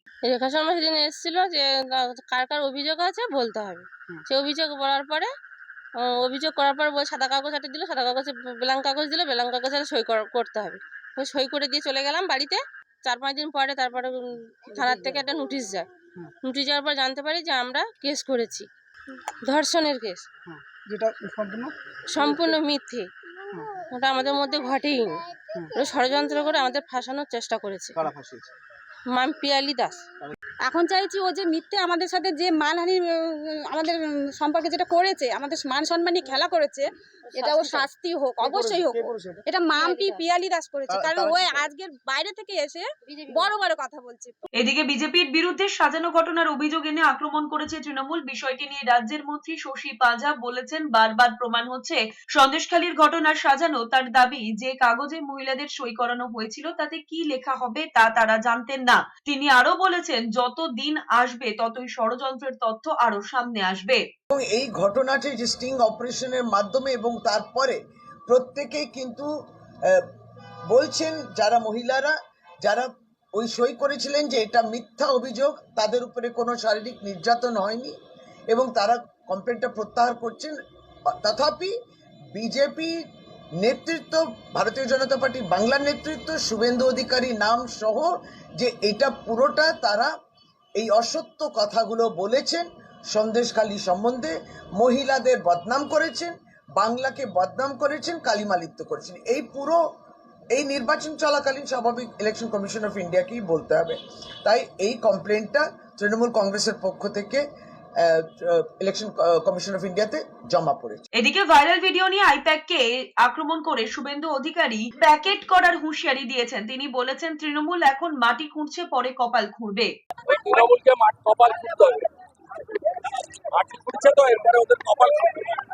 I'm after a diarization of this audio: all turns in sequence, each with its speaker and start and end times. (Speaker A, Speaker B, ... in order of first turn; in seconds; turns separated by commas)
Speaker A: 0.3-5.3, Speaker A: 6.0-15.9, Speaker A: 16.4-18.7, Speaker A: 19.4-20.3, Speaker B: 20.4-22.6, Speaker A: 22.1-23.1, Speaker A: 23.8-25.2, Speaker A: 25.7-28.0, Speaker B: 28.0-28.5, Speaker A: 29.1-30.0, Speaker C: 30.6-44.4, Speaker A: 37.3-37.9, Speaker B: 38.4-39.4, Speaker A: 39.8-40.2, Speaker D: 41.0-41.6, Speaker A: 43.0-43.5, Speaker E: 44.5-64.0, Speaker D: 64.3-69.3, Speaker D: 70.7-77.9, Speaker D: 78.5-80.6, Speaker D: 81.2-81.7, Speaker D: 82.3-83.0, Speaker D: 83.6-90.1, Speaker D: 90.8-99.8, Speaker D: 100.5-107.4, Speaker D: 108.0-111.0, Speaker E: 111.2-119.9, Speaker F: 120.2-122.1, Speaker F: 123.5-125.6